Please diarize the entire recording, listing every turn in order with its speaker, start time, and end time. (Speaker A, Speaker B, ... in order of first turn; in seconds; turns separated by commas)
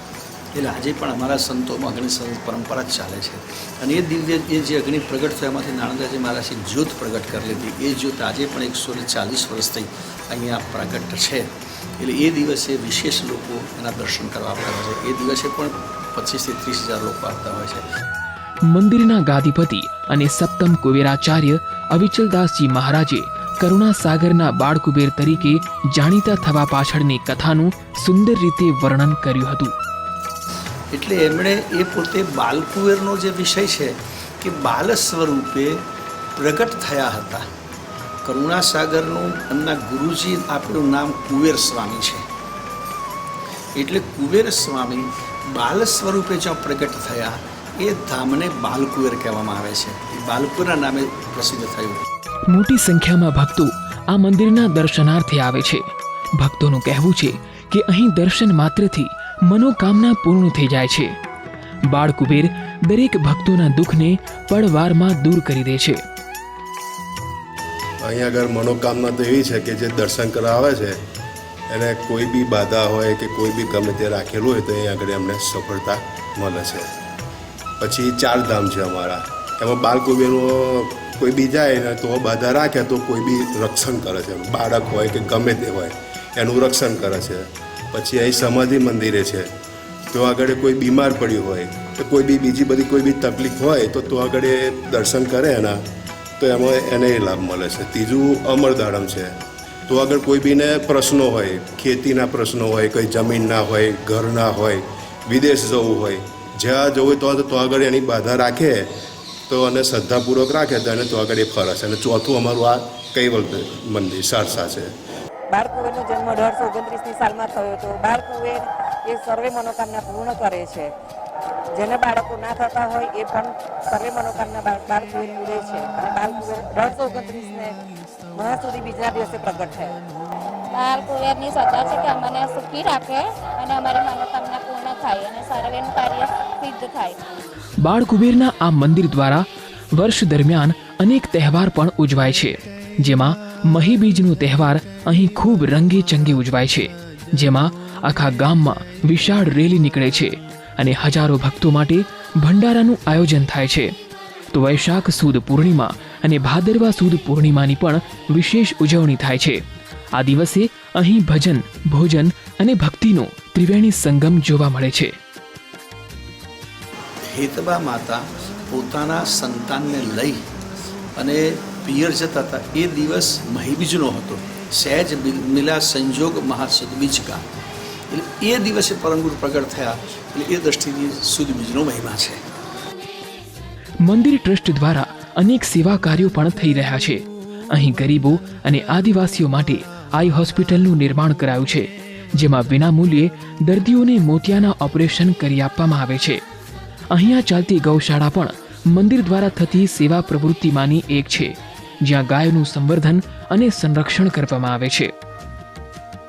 Speaker A: 0.5-11.5, Speaker A: 12.0-17.8, Speaker B: 18.7-29.7, Speaker A: 30.9-35.8, Speaker A: 36.4-37.4, Speaker A: 38.2-42.2, Speaker A: 43.8-52.0, Speaker B: 52.5-55.8, Speaker B: 56.4-61.1, Speaker B: 61.9-66.0, Speaker C: 68.0-71.0, Speaker C: 71.7-76.9, Speaker C: 77.8-89.5, Speaker C: 90.1-95.8, Speaker C: 96.4-99.3, Speaker C: 99.9-108.9, Speaker C: 109.5-114.9, Speaker D: 115.5-120.9, Speaker D: 121.8-127.8, Speaker D: 128.3-130.0, Speaker E: 130.7-137.2, Speaker B: 137.8-153.9, Speaker B: 154.5-159.6, Speaker B: 160.2-165.1, Speaker A: 167.3-170.4, Speaker A: 171.2-177.4, Speaker A: 178.1-182.4, Speaker B: 184.0-196.4, Speaker B: 197.1-205.1